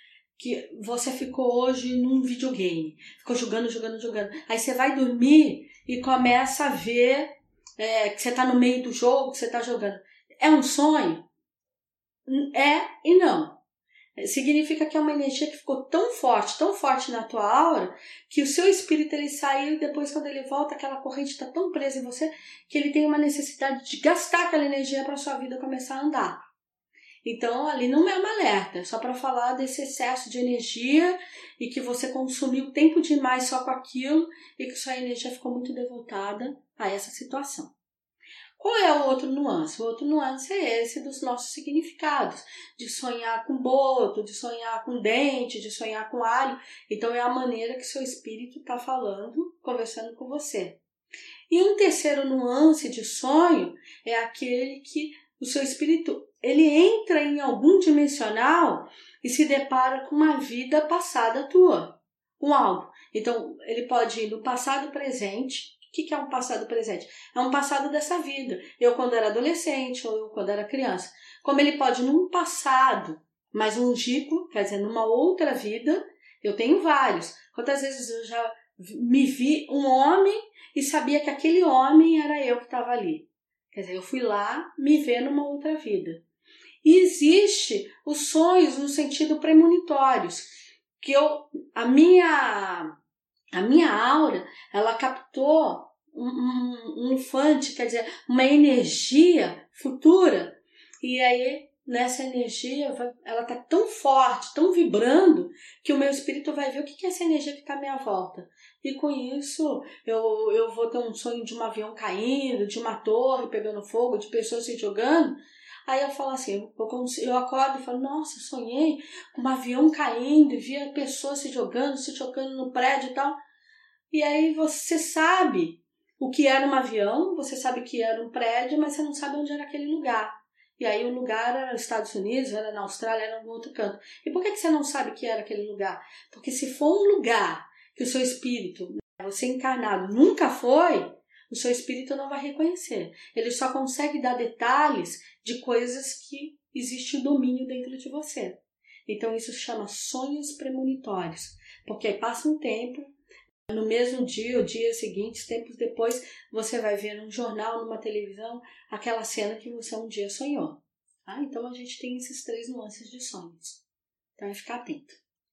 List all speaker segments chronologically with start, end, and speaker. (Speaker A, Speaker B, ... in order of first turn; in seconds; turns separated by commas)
Speaker A: 0.4-11.3, Speaker A: 12.3-13.6, Speaker A: 14.2-26.4, Speaker A: 27.2-37.7, Speaker A: 38.6-50.8, Speaker A: 51.5-86.2, Speaker A: 86.8-90.5, Speaker A: 91.0-92.9, Speaker A: 93.5-123.4, Speaker A: 124.1-153.1, Speaker A: 153.7-163.8, Speaker A: 164.4-165.2